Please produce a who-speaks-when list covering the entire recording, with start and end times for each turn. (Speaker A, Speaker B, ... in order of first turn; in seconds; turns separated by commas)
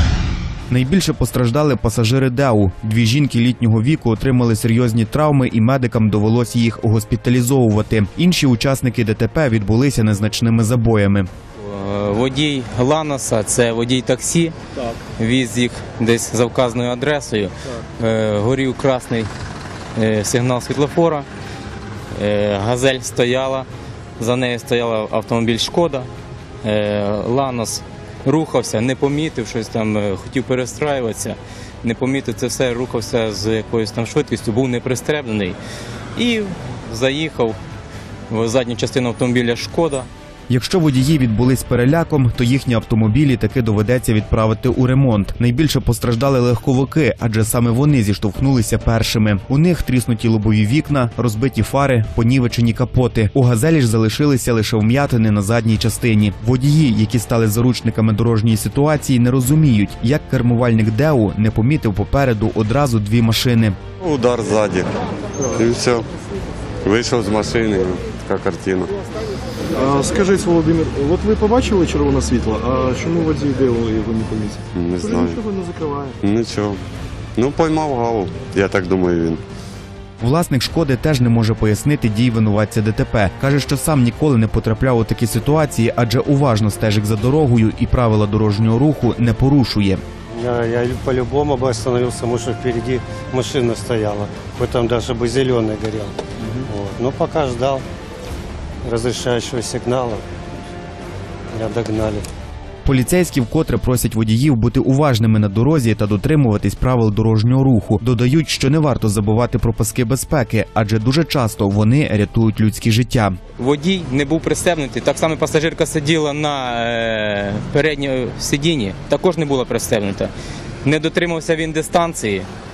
Speaker A: 0.7-11.3, Speaker B: 11.6-14.5, Speaker B: 15.2-19.3, Speaker B: 19.9-21.3, Speaker B: 22.1-23.7, Speaker B: 24.2-26.1, Speaker B: 26.6-35.6, Speaker B: 36.1-37.6, Speaker B: 38.3-40.1, Speaker A: 40.5-63.8, Speaker C: 64.0-64.9, Speaker C: 65.4-66.1, Speaker C: 66.8-68.9, Speaker D: 69.7-76.1, Speaker C: 74.7-75.4, Speaker C: 76.2-76.8, Speaker C: 77.3-79.4, Speaker A: 80.2-90.0, Speaker E: 90.3-97.8, Speaker E: 98.8-100.2, Speaker E: 101.5-102.2, Speaker A: 102.8-113.4, Speaker B: 113.6-120.3, Speaker B: 120.8-122.5